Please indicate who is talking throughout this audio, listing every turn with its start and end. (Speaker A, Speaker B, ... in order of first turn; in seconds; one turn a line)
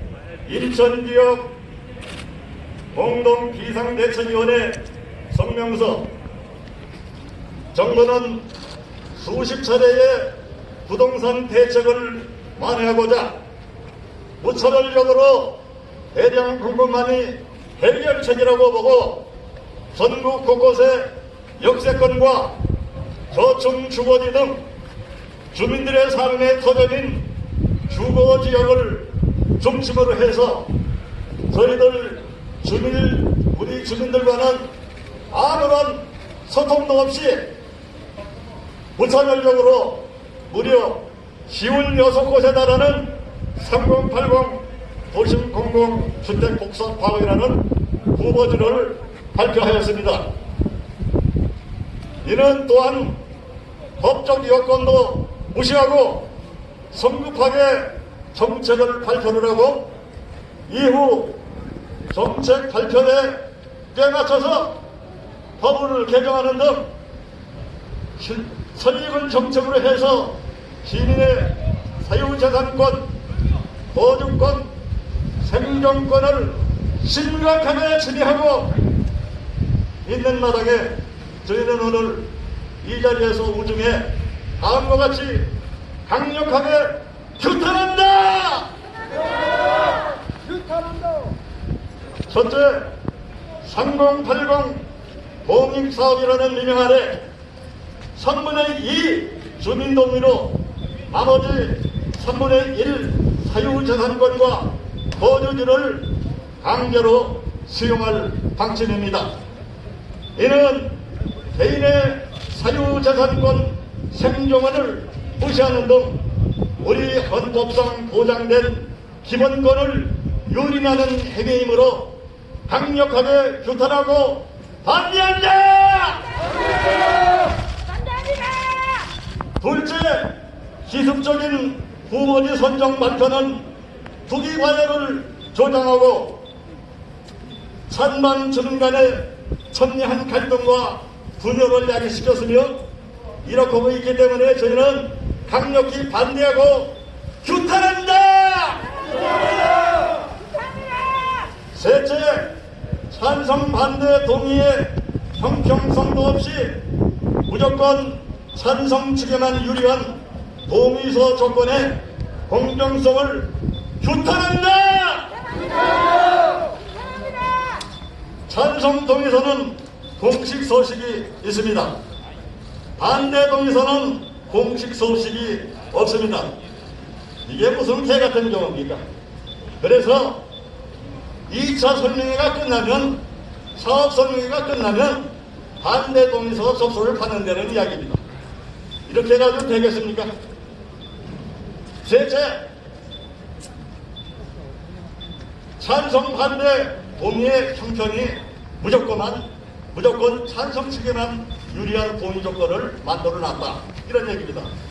Speaker A: 0.5-1.6
Speaker A: 2.9-6.1
Speaker A: 7.7-8.4
Speaker A: 9.2-13.4
Speaker A: 14.4-15.6
Speaker A: 16.1-19.3
Speaker A: 19.9-22.6
Speaker A: 23.3-24.6
Speaker A: 25.5-27.3
Speaker A: 27.9-30.7
Speaker A: 31.5-34.7
Speaker A: 35.3-37.5
Speaker A: 39.0-50.2
Speaker A: 52.2-53.2
Speaker A: 54.0-56.3
Speaker A: 56.9-59.9
Speaker A: 60.7-61.4
Speaker A: 62.1-64.8
Speaker A: 65.6-66.9
Speaker A: 68.2-73.1
Speaker A: 73.9-74.7
Speaker A: 75.4-78.8
Speaker A: 80.0-82.3
Speaker A: 82.8-85.5
Speaker A: 86.1-88.7
Speaker A: 92.3-92.9
Speaker A: 93.6-94.8
Speaker A: 95.5-97.2
Speaker A: 98.2-100.6
Speaker A: 101.1-106.1
Speaker A: 106.6-109.3
Speaker A: 110.4-111.0
Speaker A: 111.5-116.2
Speaker A: 116.8-122.1
Speaker A: 122.7-126.3
Speaker A: 129.6-133.7
Speaker A: 134.3-136.4
Speaker A: 137.9-142.8
Speaker A: 143.4-149.0
Speaker A: 151.7-152.6
Speaker A: 153.1-156.8
Speaker A: 157.5-162.0
Speaker A: 162.5-163.5
Speaker A: 164.0-165.4
Speaker A: 168.5-171.9
Speaker A: 173.0-176.5
Speaker A: 177.4-179.0
Speaker A: 179.8-180.4
Speaker A: 181.5-183.2
Speaker A: 183.8-185.3
Speaker A: 185.8-188.2
Speaker A: 189.1-190.3
Speaker A: 192.0-192.7
Speaker A: 195.8-204.7